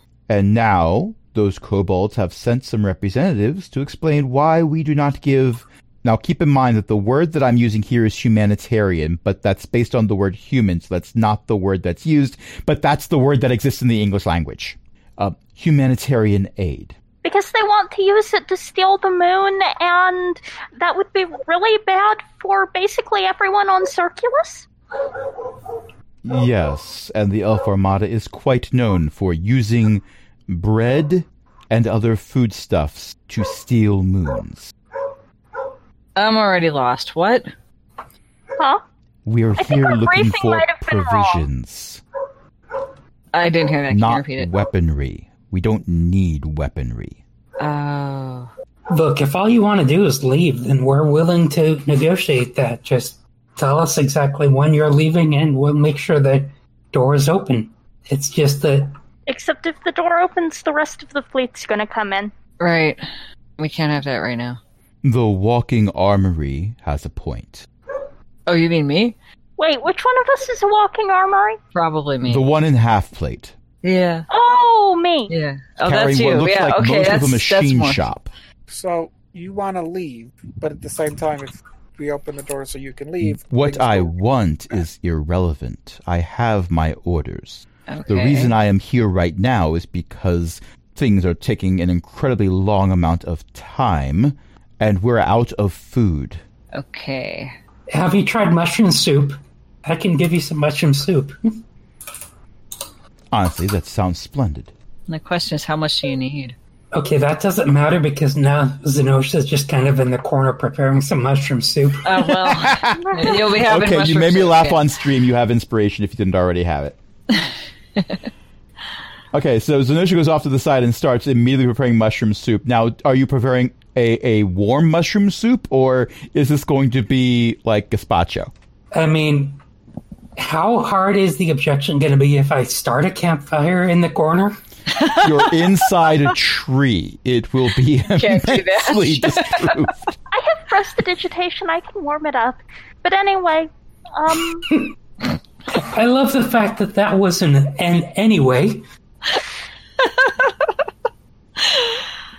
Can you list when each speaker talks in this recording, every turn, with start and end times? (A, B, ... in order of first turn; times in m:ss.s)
0:00.3-0:17.0 A
0:17.2-0:24.7 B
0:26.2-0:34.7 A
0:36.2-0:37.5 C
0:38.6-0:38.8 B
0:39.2-0:42.0 A
0:39.6-0:41.4 B
0:43.3-0:44.5 C
0:43.9-0:47.2 A
0:47.6-0:48.5 C
0:48.9-0:59.0 D
0:59.3-1:02.3 B
1:02.6-1:03.0 C
1:03.6-1:04.6 C
1:05.0-1:07.7 A
1:08.5-1:09.1 C
1:09.6-1:11.6 B
1:11.7-1:12.4 C
1:12.2-1:13.5 A
1:13.8-1:14.3 C
1:14.3-1:15.3 B
1:15.3-1:18.0 C
1:15.8-1:18.3 A
1:18.7-1:24.1 E
1:23.2-1:36.4 A
1:27.9-1:28.6 C
1:36.7-1:37.5 C
1:37.9-1:41.4 D
1:43.3-1:44.7 A
1:45.1-1:46.5 C
1:46.9-1:52.2 D
1:52.0-1:54.9 C
1:52.3-1:57.0 A
1:59.3-2:08.5 A
2:08.9-2:09.6 D
2:10.4-2:14.6 D
2:15.0-2:15.3 C
2:15.1-2:20.0 A
2:18.1-2:19.8 C
2:20.3-2:24.7 B
2:25.7-2:28.8 D
2:30.0-2:30.5 C
2:31.6-2:32.0 C